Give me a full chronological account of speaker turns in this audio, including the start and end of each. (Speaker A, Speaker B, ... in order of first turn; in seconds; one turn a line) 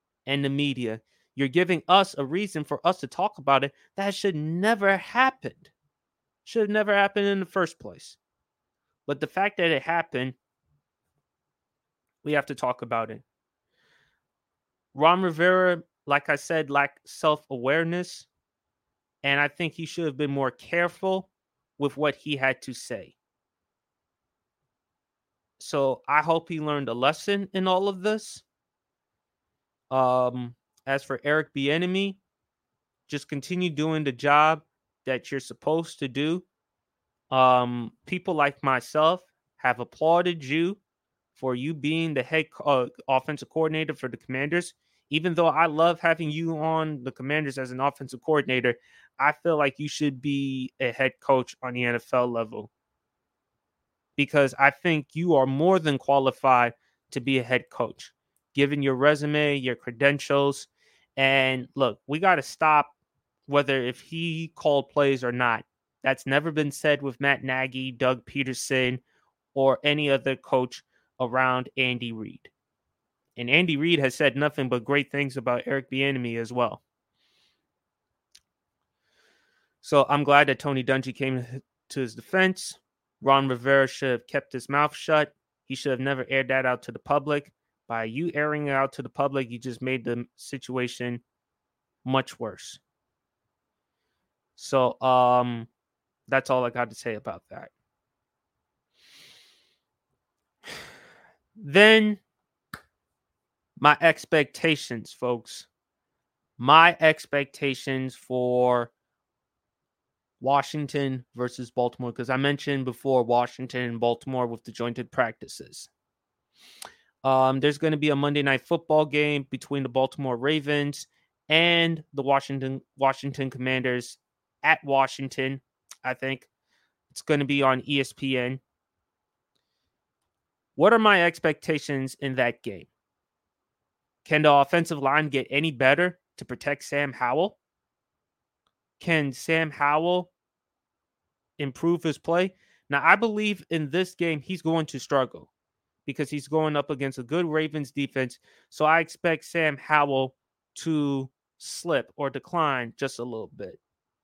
Speaker A: 0.2-5.7
Speaker A: 6.4-8.2
Speaker A: 9.1-10.3
Speaker A: 12.2-13.2
Speaker A: 14.9-18.3
Speaker A: 19.2-23.1
Speaker A: 25.6-28.4
Speaker A: 29.9-32.2
Speaker A: 33.1-36.4
Speaker A: 37.3-40.8
Speaker A: 41.3-52.7
Speaker A: 54.1-62.9
Speaker A: 63.5-69.0
Speaker A: 69.5-72.5
Speaker A: 73.4-76.8
Speaker A: 79.8-91.2
Speaker A: 92.0-92.8
Speaker A: 94.5-95.7
Speaker A: 96.3-97.7
Speaker A: 101.6-102.2
Speaker A: 103.8-105.7
Speaker A: 106.6-108.9
Speaker A: 110.4-115.9
Speaker A: 117.2-126.5
Speaker A: 127.1-128.6
Speaker A: 130.8-132.9
Speaker A: 134.2-137.6
Speaker A: 139.0-140.3
Speaker A: 141.6-145.5
Speaker A: 146.1-153.8